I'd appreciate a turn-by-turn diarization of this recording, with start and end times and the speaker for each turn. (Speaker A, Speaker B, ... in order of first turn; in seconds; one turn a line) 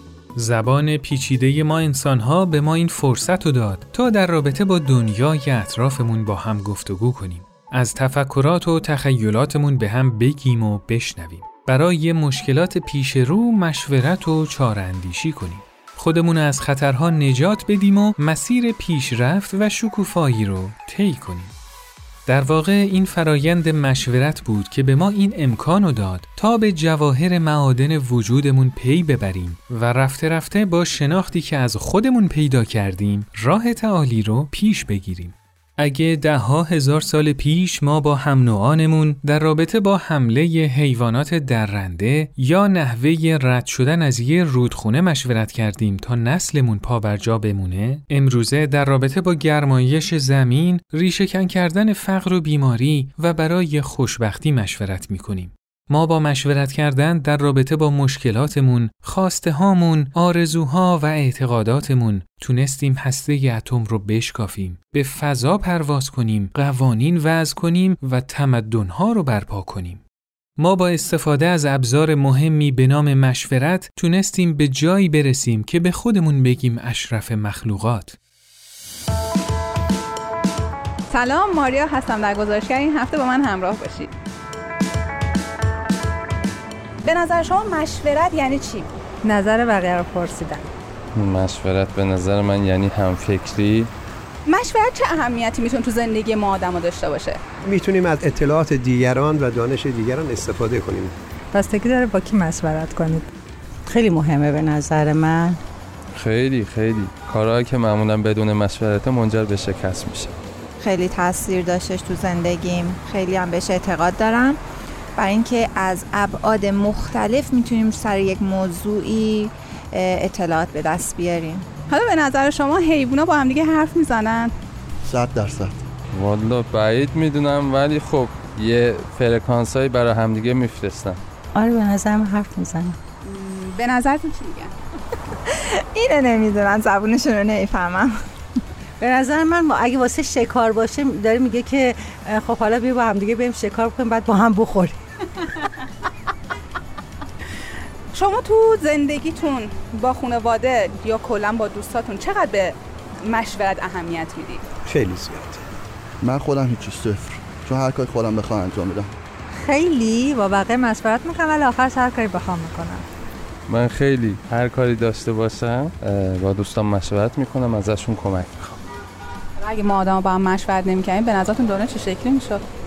Speaker A: 0.3-21.5
Speaker A: 22.3-70.0
Speaker A: 70.6-78.2
Speaker B: 81.1-84.1
Speaker B: 87.0-88.9
Speaker C: 91.2-93.9
Speaker B: 94.5-97.4
Speaker D: 97.7-101.2
Speaker E: 103.9-105.6
Speaker C: 106.2-110.3
Speaker F: 110.8-114.6
Speaker F: 115.2-121.7
Speaker B: 121.9-124.5
Speaker G: 125.1-125.8
Speaker C: 126.2-131.2
Speaker E: 131.6-133.0
Speaker B: 133.3-134.7
Speaker F: 135.9-138.1
Speaker E: 139.0-145.0
Speaker B: 148.1-154.6
Speaker D: 154.9-155.6
Speaker G: 156.2-159.1
Speaker H: 160.0-163.0
Speaker C: 163.7-168.7
Speaker B: 169.6-172.6